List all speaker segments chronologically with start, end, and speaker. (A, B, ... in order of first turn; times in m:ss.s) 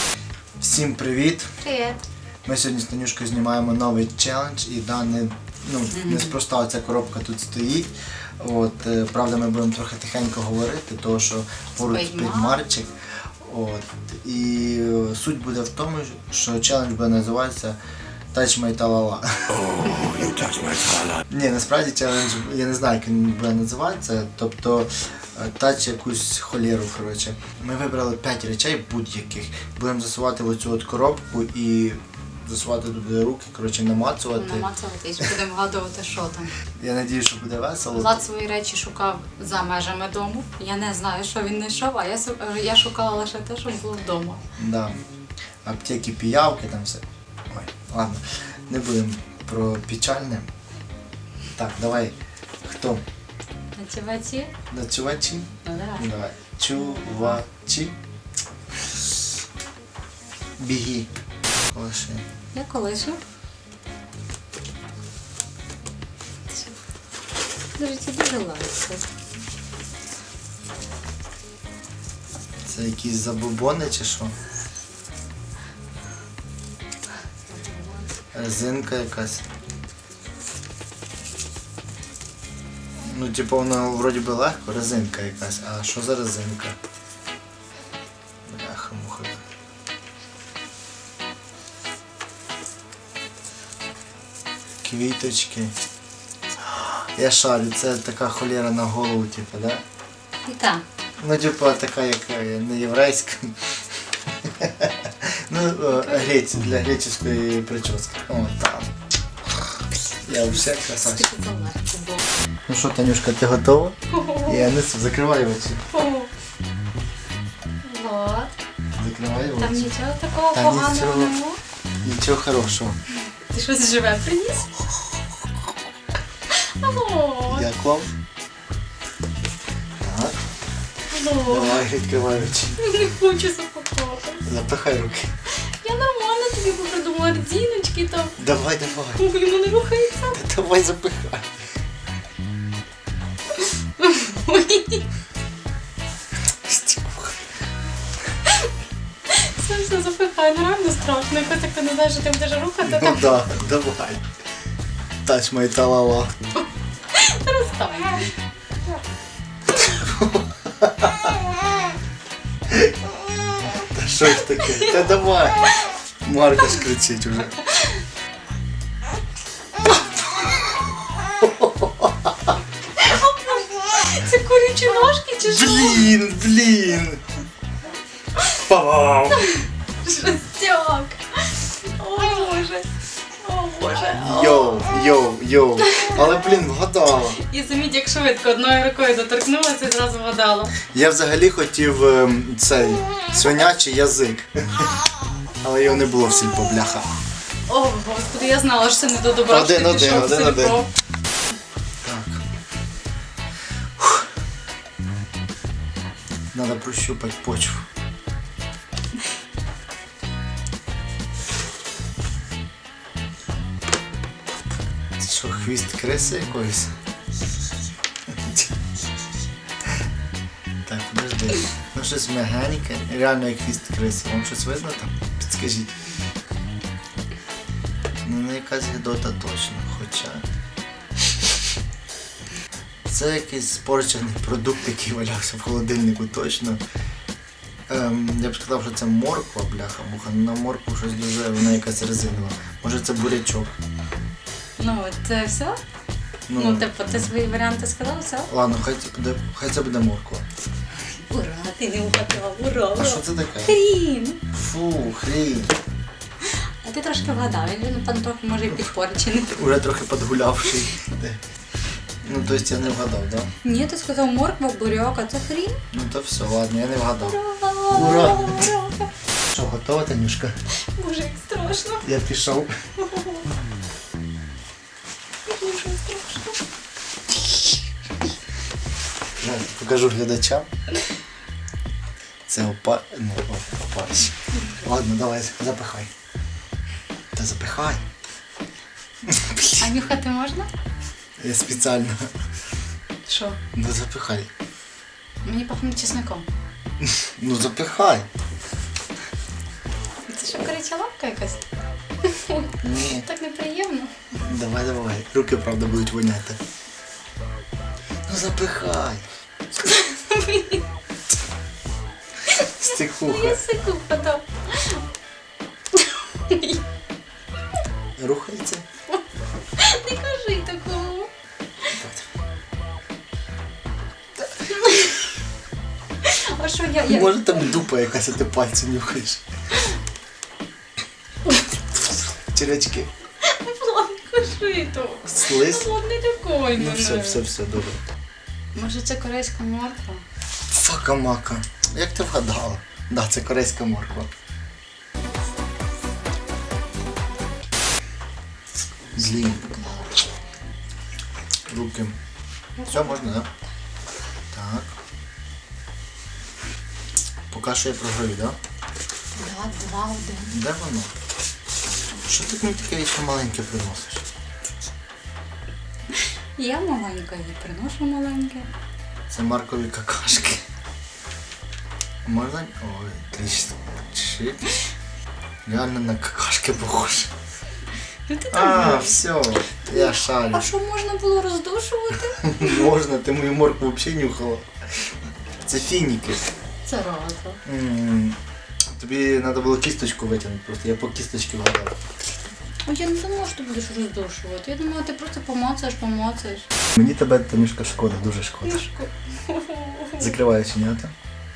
0:00.6-0:01.5 A
0:01.6-0:02.0 B
0:02.4-0:17.8 A
0:05.9-0:06.3 B
0:11.8-0:12.6 B
0:18.3-0:20.4 A
0:21.3-0:34.7 A
0:34.3-0:36.5 B
0:36.8-0:38.2 A
0:37.9-0:44.4 B
0:44.6-0:45.0 A
0:45.6-0:50.5 A
0:51.5-0:53.0 A
0:53.8-0:54.5 B
0:54.7-0:58.0 A
0:55.6-0:56.0 B
0:56.7-0:57.4 B
1:00.6-1:01.1 A
1:01.6-1:02.2 A
1:02.5-1:03.2 B
1:07.8-1:09.0 B
1:12.6-1:14.3 A
1:17.5-1:18.1 B
1:18.3-1:19.4 A
1:23.0-1:26.8 A
1:28.5-1:29.4 A
1:34.8-1:35.7 A
1:36.6-1:39.8 A
1:40.4-1:40.8 B
1:41.2-1:43.8 A
1:44.3-1:48.9 A
1:45.9-1:46.3 B
1:50.2-1:51.3 A
1:50.5-1:52.2 B
1:52.7-1:55.8 A
1:54.1-1:54.7 B
1:55.9-1:56.3 B
1:57.8-1:58.5 B
1:59.0-1:59.9 A
1:59.6-2:01.6 B
2:00.5-2:01.3 A
2:02.0-2:03.0 A
2:03.5-2:04.7 B
2:06.6-2:07.7 B
2:07.5-2:08.1 A
2:10.0-2:10.4 A
2:11.1-2:11.8 B
2:11.4-2:12.8 A
2:12.8-2:14.4 B
2:14.4-2:15.3 A
2:15.6-2:18.4 B
2:18.4-2:19.2 A
2:19.1-2:20.4 B
2:20.3-2:21.5 A
2:23.6-2:25.0 B
2:26.6-2:27.4 A
2:29.3-2:33.3 B
2:32.8-2:34.2 A
2:35.2-2:36.3 A
2:37.1-2:38.3 B
2:39.8-2:41.3 A
2:43.8-2:47.6 A
2:44.5-2:44.9 B
2:51.4-2:52.1 A
2:52.9-2:56.1 B
2:55.4-2:57.2 A
2:58.5-2:59.5 A
2:59.4-3:02.9 B
3:03.4-3:05.3 B
3:04.1-3:07.4 A
3:05.8-3:06.4 B
3:07.3-3:10.8 B
3:10.8-3:14.9 A
3:15.6-3:17.1 A
3:17.7-3:20.9 B
3:19.5-3:20.8 A
3:22.0-3:22.4 A
3:24.0-3:24.2 A
3:26.5-3:27.8 A
3:35.2-3:36.9 A
3:38.3-3:38.7 A
3:40.8-3:45.9 A
3:48.2-3:50.4 A
3:53.1-3:56.8 A
3:57.9-4:03.7 A
4:04.8-4:05.8 B
4:06.5-4:06.9 A
4:06.5-4:08.5 B
4:08.5-4:10.4 A
4:11.3-4:14.4 B
4:12.9-4:13.8 A
4:14.5-4:15.8 A
4:16.4-4:19.6 B
4:19.5-4:21.4 A
4:22.2-4:23.5 A
4:23.6-4:25.8 B
4:25.9-4:27.4 A
4:27.2-4:29.1 B
4:27.9-4:28.7 A
4:29.5-4:30.6 A
4:30.9-4:32.1 B
4:32.0-4:32.7 A
4:33.0-4:33.5 B
4:35.4-4:36.6 B
4:37.3-4:37.8 B
4:39.4-4:40.7 A
4:42.5-4:46.1 A
4:47.3-4:48.0 A
4:49.3-4:49.9 A
4:49.8-4:50.7 B
4:51.4-4:52.3 A
4:53.2-4:53.6 B
4:53.7-4:54.5 A
4:55.4-4:56.4 B
4:57.0-4:58.3 A
5:00.3-5:01.6 B
5:02.2-5:04.3 B
5:02.8-5:03.3 A
5:04.4-5:06.6 A
5:08.3-5:09.3 A
5:09.8-5:10.8 B
5:12.5-5:15.0 B
5:12.6-5:13.7 A
5:15.9-5:16.8 B
5:18.2-5:18.8 A
5:19.8-5:21.3 B
5:21.9-5:22.2 A
5:24.6-5:25.2 B
5:26.2-5:27.8 B
5:27.0-5:29.4 A
5:31.5-5:31.8 B
5:32.5-5:33.1 A
5:33.4-5:37.4 B
5:35.3-5:35.9 A
5:36.7-5:38.0 A
5:38.7-5:40.2 B
5:40.7-5:44.3 A
5:49.1-5:50.2 B
5:49.2-5:49.8 A
5:51.7-5:52.2 A
5:52.8-5:53.4 B
5:52.9-5:53.5 A
5:54.5-5:54.9 A
5:57.5-5:58.6 A
5:59.4-6:00.5 B
6:00.5-6:01.1 A
6:02.2-6:04.2 A
6:06.6-6:08.7 B
6:09.3-6:10.6 A
6:12.2-6:14.6 A
6:15.6-6:17.3 A
6:18.3-6:19.2 B
6:18.5-6:20.7 A
6:19.9-6:22.9 B
6:22.4-6:24.7 A
6:25.6-6:26.4 A
6:26.8-6:27.6 B
6:27.6-6:28.4 A
6:28.9-6:31.9 A
6:32.8-6:36.6 B
6:36.9-6:38.8 A
6:38.6-6:40.3 B
6:40.2-6:41.1 A